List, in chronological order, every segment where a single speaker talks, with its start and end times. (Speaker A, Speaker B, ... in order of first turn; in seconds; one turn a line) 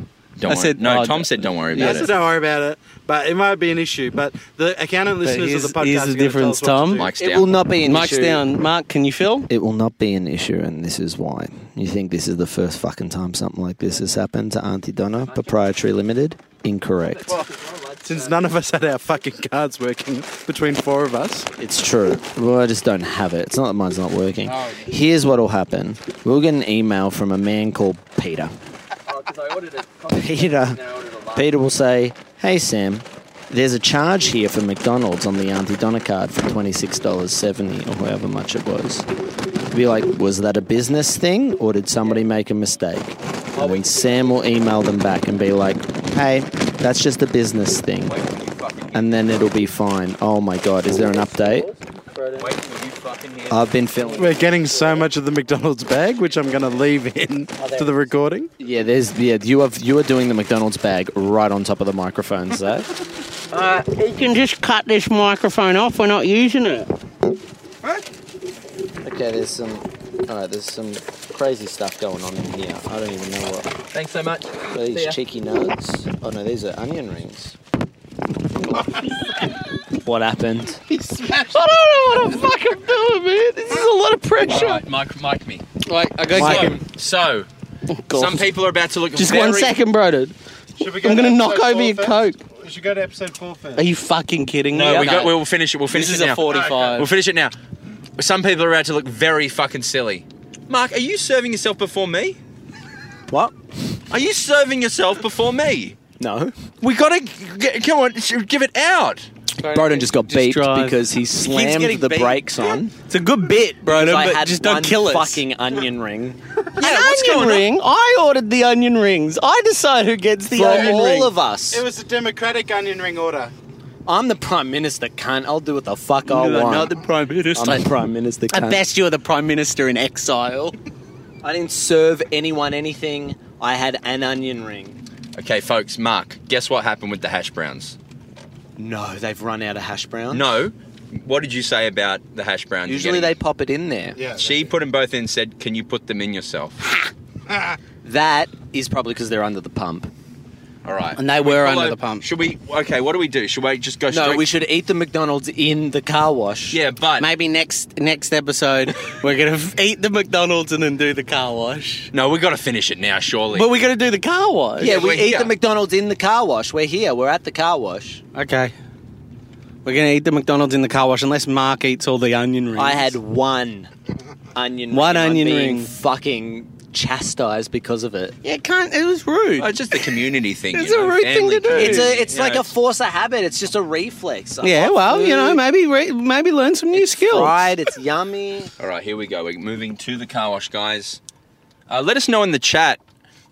Speaker A: 0.4-2.1
Speaker B: 0.5-2.1
Speaker C: 1.8-7.1
Speaker B: 5.2-7.2
Speaker A: 7.0-7.5
Speaker D: 7.2-8.4
Speaker B: 7.8-9.5
Speaker D: 9.5-17.4
Speaker A: 15.3-15.7
Speaker A: 17.1-18.4
Speaker C: 18.0-21.5
Speaker D: 21.6-28.5
Speaker C: 24.5-24.8
Speaker A: 29.1-31.5
Speaker D: 30.1-30.8
Speaker D: 31.4-39.1
Speaker D: 39.7-48.2
Speaker A: 43.5-44.5
Speaker A: 48.1-49.7
Speaker D: 48.9-51.7
Speaker B: 51.3-52.5
Speaker A: 52.4-55.0
Speaker D: 53.5-54.5
Speaker C: 54.2-58.5
Speaker D: 58.6-62.9
Speaker B: 63.5-66.9
Speaker D: 69.0-73.8
Speaker A: 73.9-75.2
Speaker D: 74.7-77.6
Speaker D: 79.9-80.8
Speaker B: 81.3-84.8
Speaker A: 84.5-85.7
Speaker B: 85.8-86.8
Speaker A: 86.3-87.5
Speaker D: 86.3-86.8
Speaker B: 87.9-88.5
Speaker A: 88.1-89.8
Speaker B: 89.2-90.3
Speaker C: 90.8-93.9
Speaker B: 91.0-92.4
Speaker B: 93.8-95.3
Speaker A: 94.7-97.5
Speaker D: 94.9-95.3
Speaker B: 95.9-97.1
Speaker C: 96.5-97.0
Speaker A: 98.2-102.4
Speaker D: 103.3-103.6
Speaker A: 104.1-106.0
Speaker D: 106.2-106.5
Speaker A: 106.8-109.3
Speaker B: 109.6-112.4
Speaker D: 109.7-112.9
Speaker B: 113.1-115.4
Speaker D: 113.8-116.4
Speaker A: 116.8-117.7
Speaker B: 116.8-121.3
Speaker D: 120.5-121.8
Speaker C: 120.6-121.0
Speaker C: 121.7-123.5
Speaker D: 124.1-127.0
Speaker B: 126.2-127.9
Speaker D: 127.5-128.8
Speaker B: 128.5-130.8
Speaker D: 131.4-135.0
Speaker A: 135.3-138.0
Speaker D: 138.8-140.5
Speaker A: 140.3-143.3
Speaker D: 142.9-144.2
Speaker C: 144.2-144.8
Speaker A: 144.3-146.8
Speaker C: 147.5-147.8
Speaker D: 148.0-150.1
Speaker A: 150.8-154.5
Speaker B: 151.2-152.3
Speaker D: 154.1-156.8
Speaker A: 156.7-157.3
Speaker B: 157.2-162.1
Speaker A: 162.1-163.7
Speaker B: 163.5-165.0
Speaker D: 164.8-168.2
Speaker A: 164.8-165.5
Speaker B: 168.3-168.7
Speaker B: 169.8-173.2
Speaker D: 172.8-173.9
Speaker D: 174.6-178.4
Speaker B: 174.9-175.9
Speaker B: 178.4-180.1
Speaker A: 179.6-182.6
Speaker B: 180.7-182.2
Speaker D: 181.7-185.6
Speaker B: 184.6-187.7
Speaker D: 186.9-188.7
Speaker A: 188.8-191.2
Speaker A: 191.9-193.0